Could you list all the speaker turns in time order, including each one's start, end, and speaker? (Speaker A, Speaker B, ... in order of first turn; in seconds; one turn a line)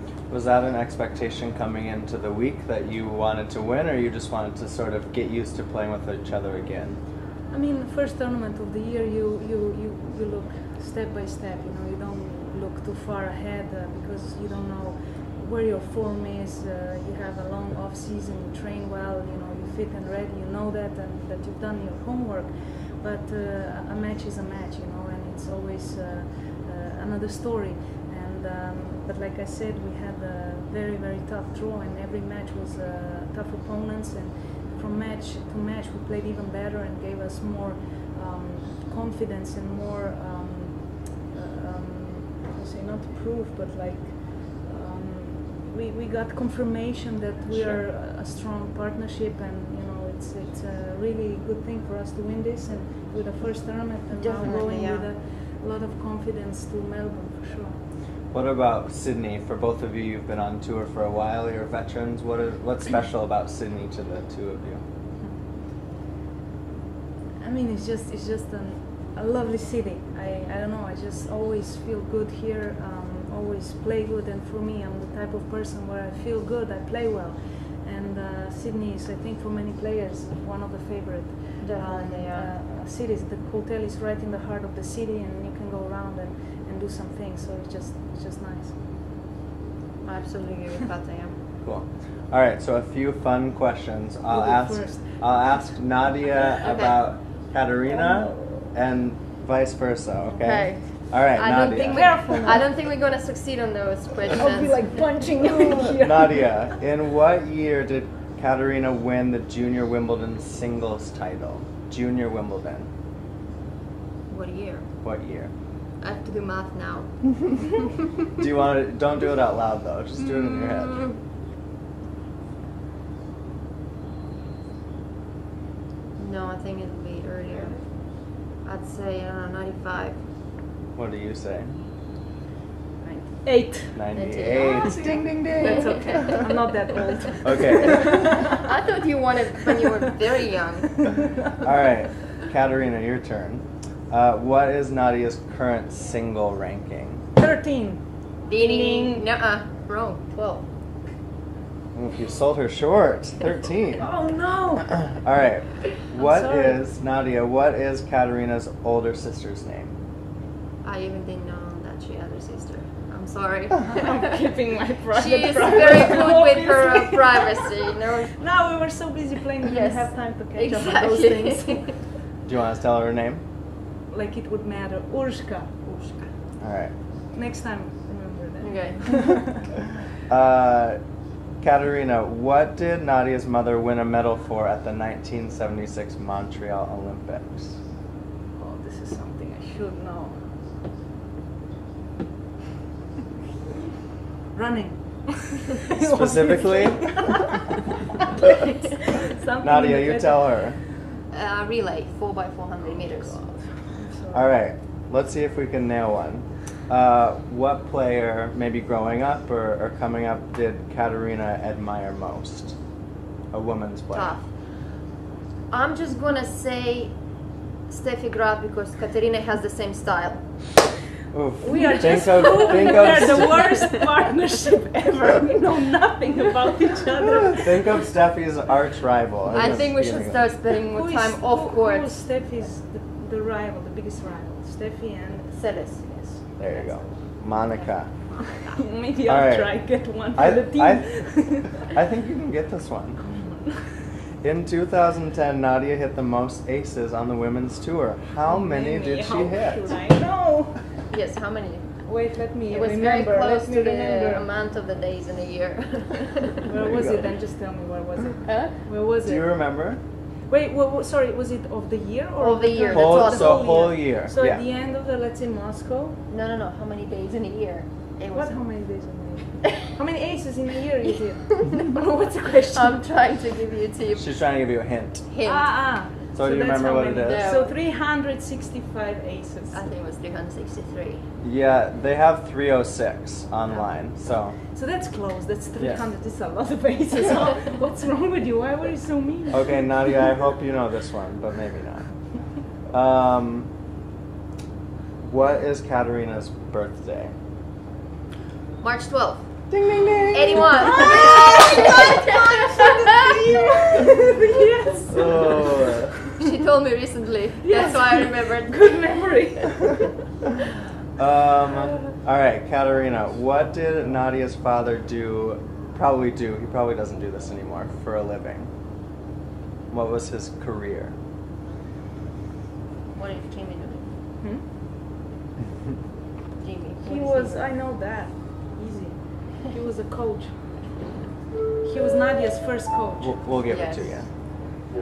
Speaker A: 0.3-7.0
Speaker B: 7.5-57.8
Speaker A: 47.5-47.8
Speaker C: 54.1-55.1
Speaker A: 58.3-64.8
Speaker B: 67.4-88.8
Speaker C: 81.6-82.5
Speaker C: 90.0-91.4
Speaker A: 91.6-102.5
Speaker B: 94.3-96.5
Speaker C: 96.6-97.1
Speaker B: 97.9-98.7
Speaker B: 100.2-100.7
Speaker C: 100.4-105.5
Speaker B: 101.9-102.7
Speaker B: 104.3-106.7
Speaker A: 105.6-112.9
Speaker C: 114.3-114.9
Speaker A: 115.0-115.5
Speaker C: 116.0-117.8
Speaker A: 118.4-121.0
Speaker C: 120.2-121.2
Speaker C: 126.2-130.3
Speaker A: 130.9-131.8
Speaker B: 133.0-134.0
Speaker A: 133.9-136.3
Speaker C: 134.1-135.0
Speaker B: 134.6-138.5
Speaker C: 135.6-136.4
Speaker A: 137.4-138.4
Speaker C: 138.5-141.0
Speaker A: 141.6-147.2
Speaker B: 147.3-149.2
Speaker C: 148.5-150.7
Speaker A: 151.9-154.0
Speaker B: 154.0-155.1
Speaker A: 155.1-159.9
Speaker B: 156.0-156.8
Speaker C: 160.8-164.2
Speaker B: 163.8-172.0
Speaker C: 165.1-168.4
Speaker C: 169.6-171.9
Speaker A: 172.4-173.4
Speaker B: 174.1-175.9
Speaker C: 175.8-176.3
Speaker A: 176.6-176.9
Speaker B: 177.3-179.7
Speaker C: 178.6-179.5
Speaker A: 180.3-181.0
Speaker A: 181.6-187.8
Speaker B: 188.5-190.4
Speaker B: 194.5-197.8
Speaker A: 196.0-197.3
Speaker B: 198.4-201.1
Speaker A: 199.6-200.8
Speaker C: 201.3-203.4
Speaker B: 202.8-204.5
Speaker A: 204.3-212.8
Speaker A: 213.5-214.3
Speaker C: 214.1-214.8
Speaker C: 215.7-217.2
Speaker C: 217.8-220.5
Speaker A: 221.3-223.7
Speaker B: 221.6-228.0
Speaker C: 222.3-223.3
Speaker A: 227.6-230.5
Speaker C: 229.5-232.5
Speaker B: 230.9-236.4
Speaker C: 235.5-238.8
Speaker A: 236.6-238.3
Speaker B: 238.7-241.9
Speaker A: 239.2-243.2
Speaker B: 243.2-243.9
Speaker A: 244.4-249.9
Speaker B: 248.4-250.8
Speaker C: 251.1-256.7
Speaker B: 252.0-254.5
Speaker B: 256.6-259.5
Speaker A: 256.8-257.3
Speaker C: 258.4-258.8
Speaker A: 259.2-260.0
Speaker B: 260.5-266.2
Speaker C: 262.4-263.9
Speaker A: 262.9-264.6
Speaker C: 266.3-268.6
Speaker B: 268.3-273.0
Speaker C: 271.6-271.9
Speaker C: 272.7-274.5
Speaker A: 274.1-275.3
Speaker C: 275.3-275.9
Speaker B: 275.4-279.9
Speaker A: 276.3-277.5
Speaker C: 277.2-277.7
Speaker C: 279.7-281.2
Speaker A: 281.4-284.6
Speaker B: 284.7-289.9
Speaker A: 289.5-292.1
Speaker A: 292.9-293.7
Speaker A: 295.2-297.3
Speaker C: 298.8-299.6
Speaker A: 299.7-301.1
Speaker C: 300.3-303.5
Speaker B: 300.7-306.1
Speaker A: 305.1-306.1
Speaker C: 306.4-309.0
Speaker B: 307.6-310.1
Speaker A: 311.2-318.7
Speaker A: 319.9-321.1
Speaker C: 323.1-324.1
Speaker B: 324.4-324.6
Speaker C: 326.6-327.6
Speaker B: 327.0-331.1
Speaker B: 331.8-333.4
Speaker A: 333.2-334.3
Speaker C: 333.7-334.3